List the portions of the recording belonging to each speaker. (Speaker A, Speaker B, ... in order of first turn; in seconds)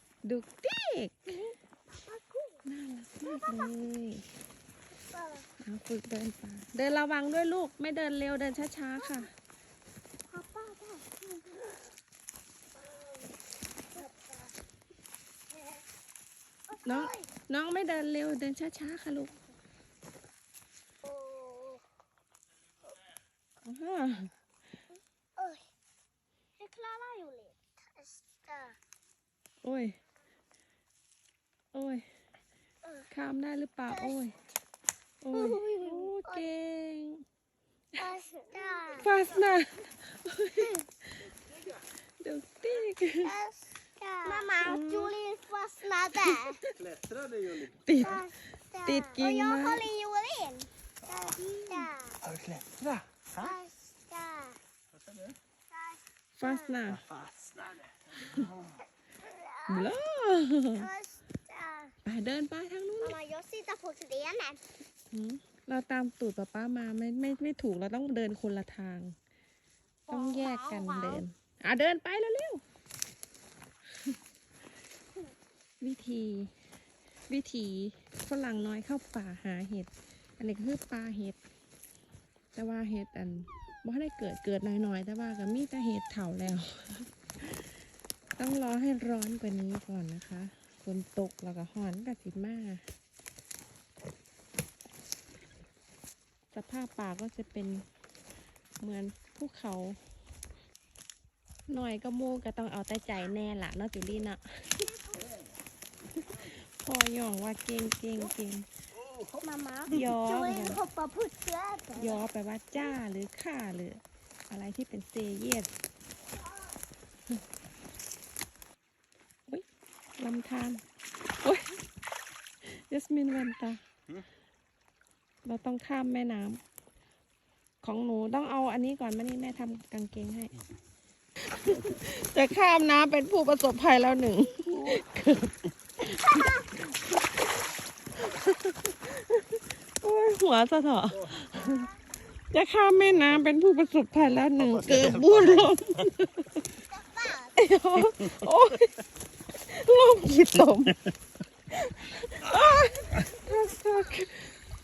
Speaker A: 0.2-1.4, 2.6-4.2, 5.6-9.3, 16.9-19.4, 23.6-24.3, 29.6-30.0, 31.7-32.0, 33.1-34.4, 35.2-37.2, 39.0-41.2, 42.2-43.3, 44.6-45.1, 46.2-46.7, 47.9-48.2, 48.8-49.9, 56.4-57.0, 59.7-60.9, 62.0-63.2, 65.1-69.2, 70.1-72.6, 75.8-76.5, 77.3-81.4, 82.5-87.7, 88.4-92.8, 96.5-97.9, 98.8-100.0, 101.7-104.9, 106.4-108.7, 109.9-110.8, 112.0-115.7, 120.2-120.8, 121.4-121.8, 122.6-123.8, 125.5-126.6, 127.8-130.5, 131.4-135.6, 136.1-136.7, 138.2-141.9, 142.5-146.6, 147.6-148.9, 149.6-151.0, 151.7-154.6
Speaker B: 2.1-2.6, 3.2-3.7, 5.1-5.5, 9.0-9.3, 10.3-11.8, 13.9-14.5, 16.7-17.3, 21.0-21.8, 25.4-25.6, 26.6-28.8, 33.9-34.2, 35.3-36.5, 38.0-39.1, 43.2-46.6, 48.0-52.2, 53.4-54.6, 55.7-56.8, 59.2-59.9, 60.8-61.9, 63.0-64.6, 70.1-71.2, 105.0-105.2, 109.4-112.2, 136.1-136.6, 141.6-141.9, 146.9-147.5, 153.2-154.3
Speaker C: 41.5-41.8, 46.8-48.2, 51.0-53.6, 54.9-55.4, 56.9-58.8, 105.2-105.5, 109.0-110.6, 131.6-132.0, 134.7-135.0, 141.1-141.4, 143.0-143.4, 144.2-146.1, 148.1-148.5, 150.9-151.1